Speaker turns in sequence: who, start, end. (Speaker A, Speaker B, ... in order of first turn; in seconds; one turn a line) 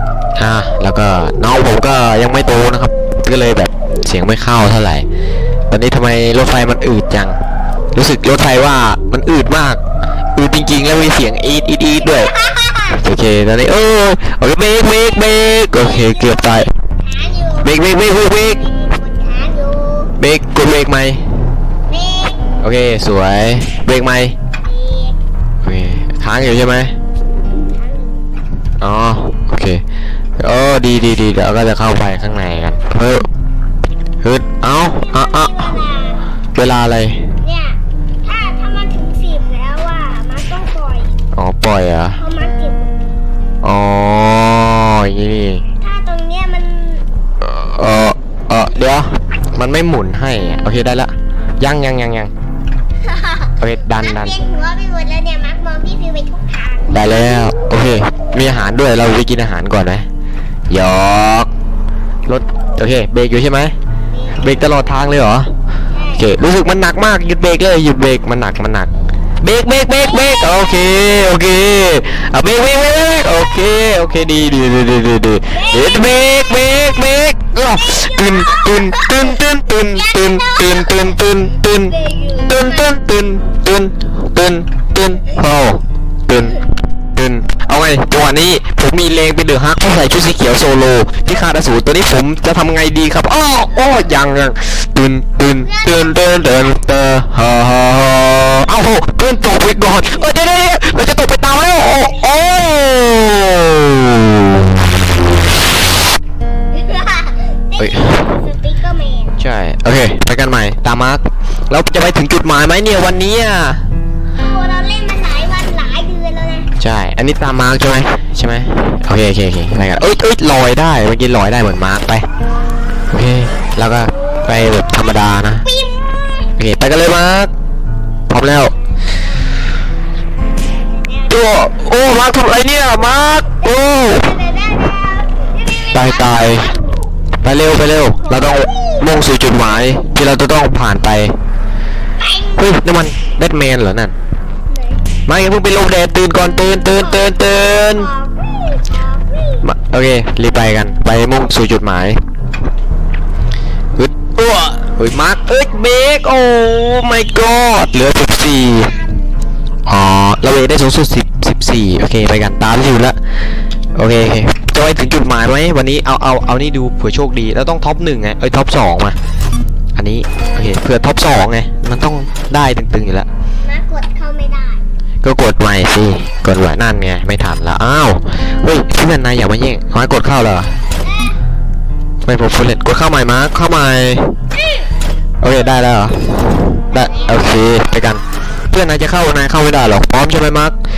Speaker A: 0.4-5.0
Speaker A: 5.7-7.4
Speaker A: 7.9-9.8
Speaker A: 10.3-12.3
Speaker B: 12.0-13.0
Speaker A: 13.0-16.7
Speaker B: 17.0-20.1
Speaker A: 17.6-18.6
Speaker A: 20.2-21.2
Speaker B: 21.9-22.5
Speaker A: 22.6-24.4
Speaker B: 24.6-25.2
Speaker A: 25.6-26.9
Speaker B: 27.7-28.2
Speaker A: 28.8-29.8
Speaker A: 30.4-33.3
Speaker A: 34.2-35.8
Speaker B: 35.0-36.3
Speaker A: 36.5-37.4
Speaker B: 37.4-41.1
Speaker A: 41.3-42.2
Speaker B: 42.2-43.0
Speaker A: 43.6-45.6
Speaker B: 45.8-47.1
Speaker A: 47.4-52.3
Speaker B: 53.0-57.4
Speaker A: 53.6-54.4
Speaker A: 56.9-60.0
Speaker A: 60.7-61.5
Speaker A: 62.2-63.7
Speaker B: 64.1-64.5
Speaker A: 64.4-65.5
Speaker B: 65.9-66.3
Speaker A: 66.2-105.8
Speaker B: 69.9-71.0
Speaker B: 75.5-76.2
Speaker B: 77.6-82.9
Speaker B: 95.6-96.2
Speaker B: 106.7-109.4
Speaker A: 107.8-108.3
Speaker A: 109.4-113.9
Speaker B: 114.3-116.7
Speaker A: 116.8-122.3
Speaker A: 123.1-125.7
Speaker B: 124.1-124.5
Speaker B: 125.6-126.5
Speaker A: 126.6-127.5
Speaker A: 128.3-128.7
Speaker B: 130.9-131.7
Speaker A: 131.3-134.4
Speaker B: 133.6-137.0
Speaker A: 135.9-136.7
Speaker A: 137.4-141.3
Speaker B: 138.2-139.2
Speaker B: 142.2-142.7
Speaker A: 142.6-144.1
Speaker B: 144.7-145.1
Speaker A: 145.2-148.1
Speaker B: 146.9-149.6
Speaker A: 149.6-152.2
Speaker A: 153.9-159.0
Speaker A: 159.8-163.2
Speaker A: 163.9-169.2
Speaker A: 169.9-173.3
Speaker B: 173.6-174.8
Speaker A: 175.2-180.7
Speaker B: 181.0-181.4
Speaker A: 182.2-184.3
Speaker A: 185.4-190.8
Speaker B: 186.9-187.6